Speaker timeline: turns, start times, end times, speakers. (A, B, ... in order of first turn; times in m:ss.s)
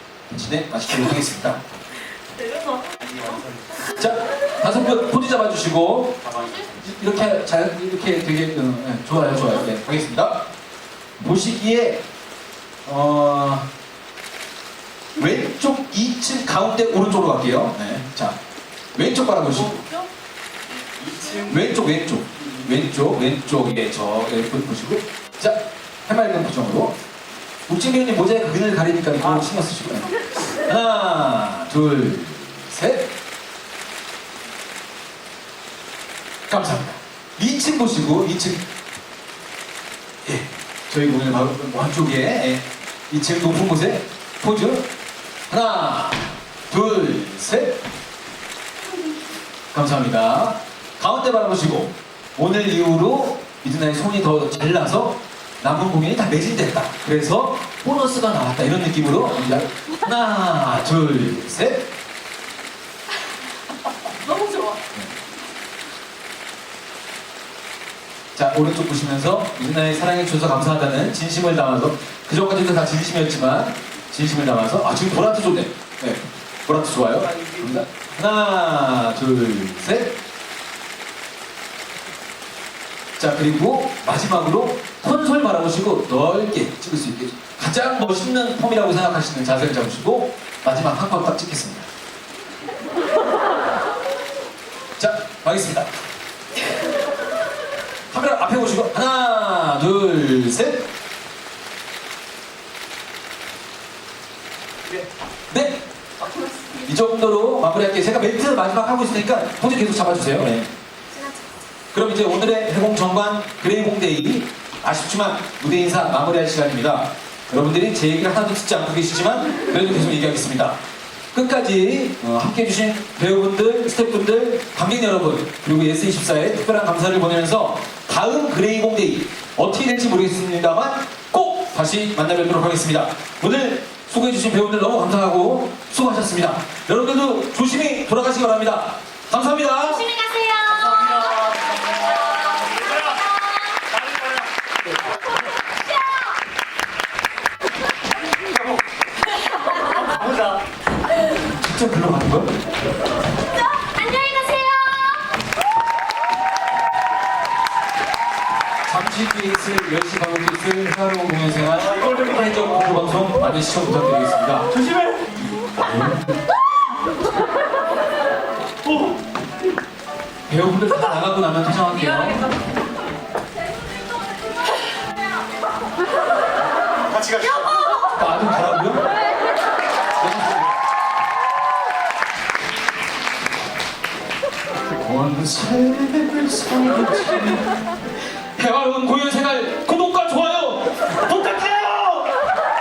0:00.3-0:01.6 A
0:02.4-0:03.7 B
0:03.8-0:10.4 A
0:11.2-0:12.0 A
0:12.8-0:13.7 A
0:15.2-0:18.4 A
0:18.9-0:19.9 A
0:21.0-0:21.5 B
0:21.3-0:27.0 A
0:27.7-0:33.1 A
0:36.5-0:38.6 A
0:40.2-0:44.9 A
0:45.5-0:47.8 A
0:49.7-1:01.9 A
1:04.2-1:04.8 B
1:04.4-1:04.8 C
1:08.3-1:20.2 A
1:23.2-1:31.9 A
1:35.0-1:35.9 A
1:38.1-1:40.9 A
1:45.5-1:45.8 A
1:46.8-1:50.7 A
1:51.1-1:51.5 C
1:51.9-2:00.8 A
2:01.3-2:20.1 A
2:20.0-2:24.0 C
2:20.8-2:22.0 B
2:22.7-2:23.1 B
2:24.0-2:24.4 B
2:25.8-2:26.3 C
2:29.9-2:30.6 B
2:31.5-2:32.5 A
2:33.5-2:35.3 C
2:38.8-2:44.9 A
2:44.9-2:45.2 B
2:45.5-2:46.4 A
2:50.5-2:52.6 A
2:57.1-2:57.8 B
2:57.4-2:58.1 C
2:58.1-2:59.1 A
3:00.2-3:00.7 A
3:05.0-3:07.7 A
3:08.4-3:12.3 A